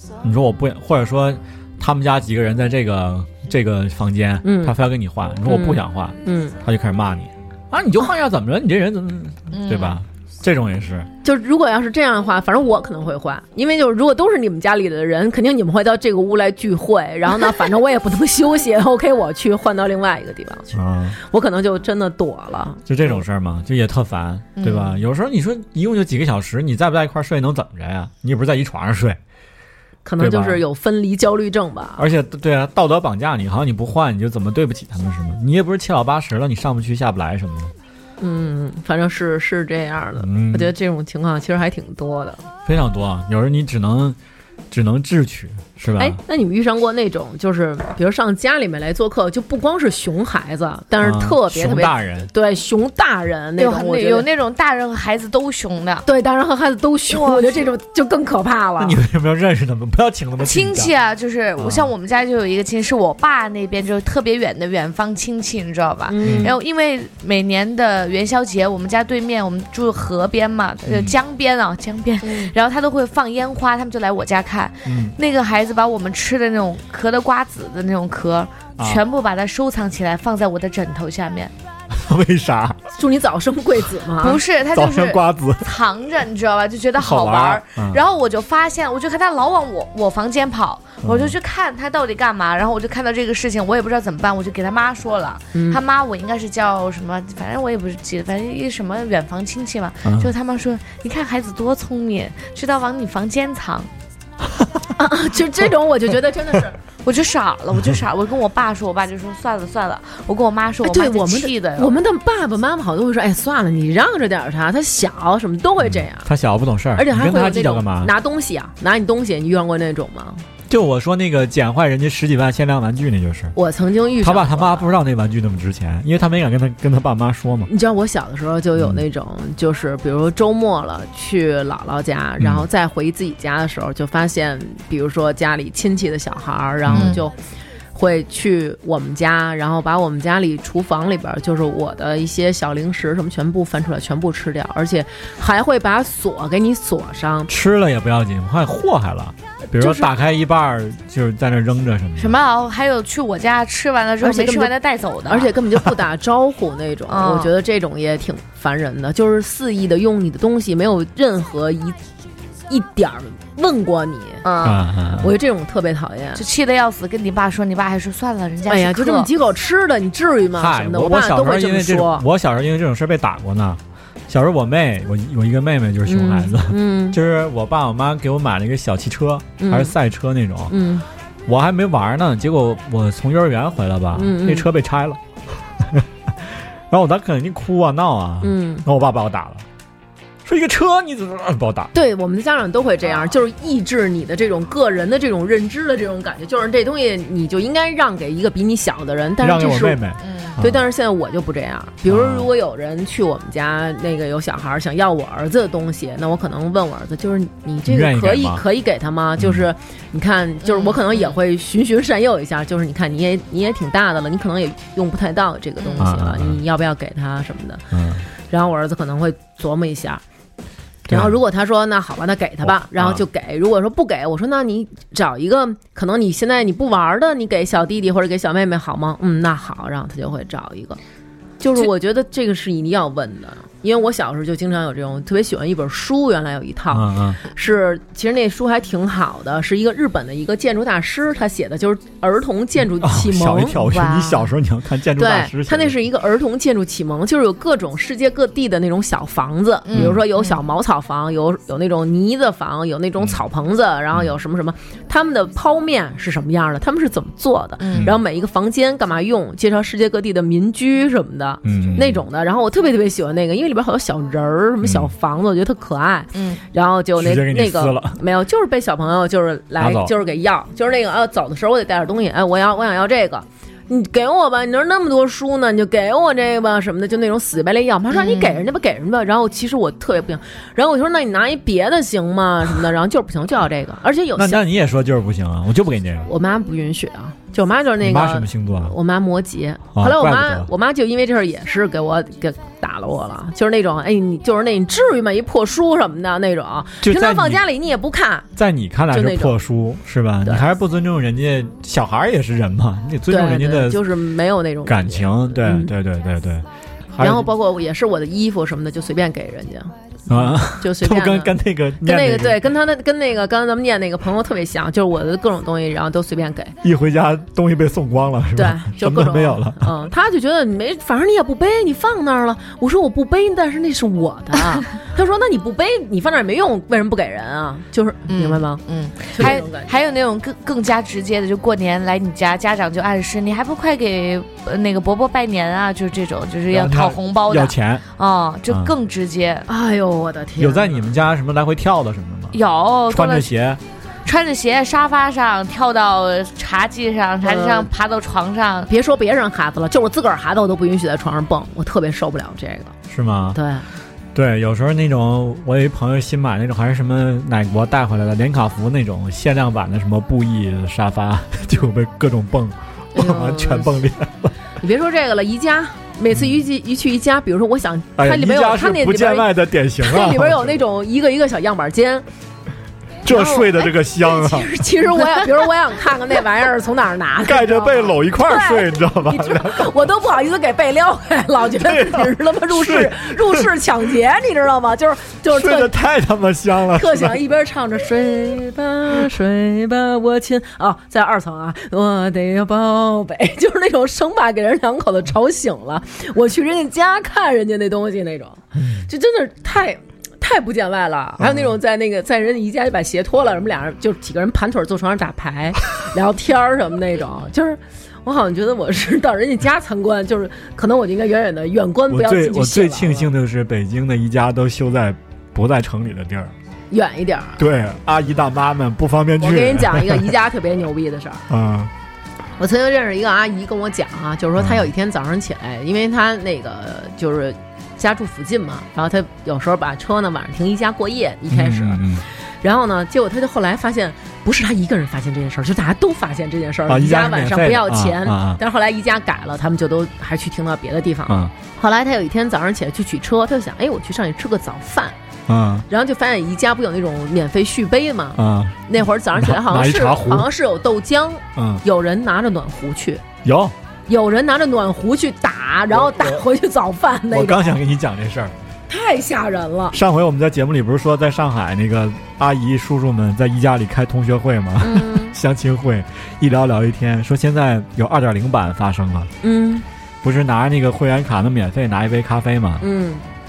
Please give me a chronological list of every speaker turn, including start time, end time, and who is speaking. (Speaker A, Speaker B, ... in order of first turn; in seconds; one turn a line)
Speaker A: 0.2-11.1
Speaker B: 4.4-4.7
Speaker B: 5.5-6.6
Speaker C: 9.5-10.0
Speaker B: 11.2-23.2
Speaker A: 20.7-21.2
Speaker A: 22.9-29.2
Speaker C: 24.6-24.9
Speaker B: 30.1-32.1
Speaker A: 30.2-30.6
Speaker A: 32.0-37.7
Speaker B: 38.2-42.5
Speaker A: 40.2-40.7
Speaker A: 42.7-44.2
Speaker A: 44.7-46.2
Speaker B: 46.0-54.3
Speaker A: 51.0-52.3
Speaker C: 53.6-56.1
Speaker B: 56.1-59.0
Speaker C: 57.1-57.6
Speaker A: 58.8-60.9
Speaker C: 60.4-81.5
Speaker A: 61.6-61.9
Speaker B: 66.1-66.6
Speaker A: 66.2-66.5
Speaker A: 70.8-71.2
Speaker B: 72.2-72.5
Speaker A: 74.9-75.2
Speaker A: 78.8-79.0
Speaker A: 81.9-82.8
Speaker B: 83.0-84.4
Speaker C: 84.2-103.9
Speaker A: 84.7-85.7
Speaker A: 87.0-88.0
Speaker A: 91.0-91.4
Speaker B: 95.5-95.8
Speaker A: 100.0-100.3
Speaker B: 105.0-106.8
Speaker C: 107.0-111.9
Speaker B: 110.8-116.3
Speaker A: 115.8-118.1
Speaker B: 117.0-120.5
Speaker A: 120.7-123.5
Speaker B: 123.5-124.9
Speaker A: 124.2-127.7
Speaker B: 127.7-137.3
Speaker A: 132.4-132.7
Speaker A: 136.8-137.2
Speaker C: 136.9-137.2
Speaker B: 137.9-147.5
Speaker A: 147.5-152.4
Speaker B: 149.8-150.1
Speaker C: 152.2-155.5
Speaker B: 154.2-154.7
Speaker B: 155.3-162.0
Speaker C: 157.1-157.5
Speaker B: 162.7-164.5
Speaker C: 164.4-164.9
Speaker A: 164.6-165.3
Speaker B: 165.2-166.4
Speaker C: 166.3-169.3
Speaker B: 168.7-172.2
Speaker A: 170.6-180.7
Speaker B: 176.1-177.2
Speaker B: 179.6-179.9
Speaker B: 180.7-181.1
Speaker A: 181.4-185.2
Speaker B: 184.2-184.7
Speaker A: 185.8-189.6
Speaker B: 188.4-188.9
Speaker A: 190.4-191.9
Speaker B: 191.9-200.0
Speaker A: 199.4-200.8
Speaker C: 200.2-200.6
Speaker B: 200.6-217.9
Speaker A: 202.1-202.5
Speaker A: 207.9-208.6
Speaker A: 209.4-209.7
Speaker C: 210.6-211.4
Speaker C: 215.8-216.1
Speaker A: 216.0-216.6
Speaker A: 217.9-218.3
Speaker B: 218.5-220.2
Speaker A: 221.1-221.4
Speaker B: 221.1-231.0
Speaker A: 222.7-223.2
Speaker B: 231.6-243.9
Speaker A: 236.9-237.4
Speaker A: 243.0-246.0
Speaker C: 243.9-244.5
Speaker B: 245.2-284.6
Speaker C: 249.9-250.5
Speaker A: 249.9-250.2
Speaker C: 257.8-258.1
Speaker A: 261.6-262.2
Speaker A: 264.8-265.1
Speaker C: 266.3-266.6
Speaker A: 267.2-268.2
Speaker A: 269.8-270.1
Speaker C: 278.1-278.6
Speaker A: 284.4-286.3
Speaker B: 286.2-298.5
Speaker A: 288.0-288.9
Speaker A: 289.9-290.7
Speaker A: 297.0-297.6
Speaker A: 298.6-304.1
Speaker B: 299.1-299.6
Speaker B: 300.4-300.7
Speaker B: 303.3-305.9
Speaker A: 304.9-307.5
Speaker B: 307.2-316.8
Speaker A: 310.3-312.6
Speaker A: 316.8-319.9
Speaker B: 318.6-328.8
Speaker C: 328.3-339.7
Speaker B: 329.3-329.9
Speaker A: 336.7-338.0
Speaker B: 339.7-341.2
Speaker A: 340.6-342.6
Speaker C: 342.5-343.5
Speaker A: 343.1-343.8
Speaker C: 344.2-348.9
Speaker B: 347.4-347.9
Speaker B: 348.9-352.9
Speaker A: 353.1-353.6
Speaker B: 353.5-353.9
Speaker A: 354.3-364.5
Speaker B: 363.1-364.0
Speaker B: 364.8-372.2
Speaker A: 366.3-366.6
Speaker A: 368.2-370.8
Speaker A: 373.2-374.7
Speaker B: 373.3-385.9
Speaker A: 377.4-379.9
Speaker A: 381.8-383.7
Speaker A: 385.5-387.4
Speaker B: 386.9-413.3
Speaker A: 401.4-401.7
Speaker A: 412.1-416.5
Speaker B: 416.9-417.6
Speaker A: 417.6-420.3
Speaker B: 419.4-421.5
Speaker A: 421.5-421.9
Speaker B: 422.6-432.1
Speaker A: 424.6-424.9
Speaker A: 431.5-432.2
Speaker B: 432.6-445.1
Speaker A: 436.9-438.6
Speaker A: 441.3-441.5
Speaker A: 445.5-445.9
Speaker B: 445.9-453.2
Speaker A: 448.4-450.5
Speaker A: 451.6-451.8
Speaker A: 453.4-453.7
Speaker B: 454.1-457.7
Speaker A: 455.9-456.4
Speaker A: 457.3-458.5
Speaker B: 458.9-460.0
Speaker A: 459.9-469.3
Speaker B: 464.8-465.4
Speaker B: 469.4-469.9
Speaker A: 470.2-472.8
Speaker B: 472.8-473.2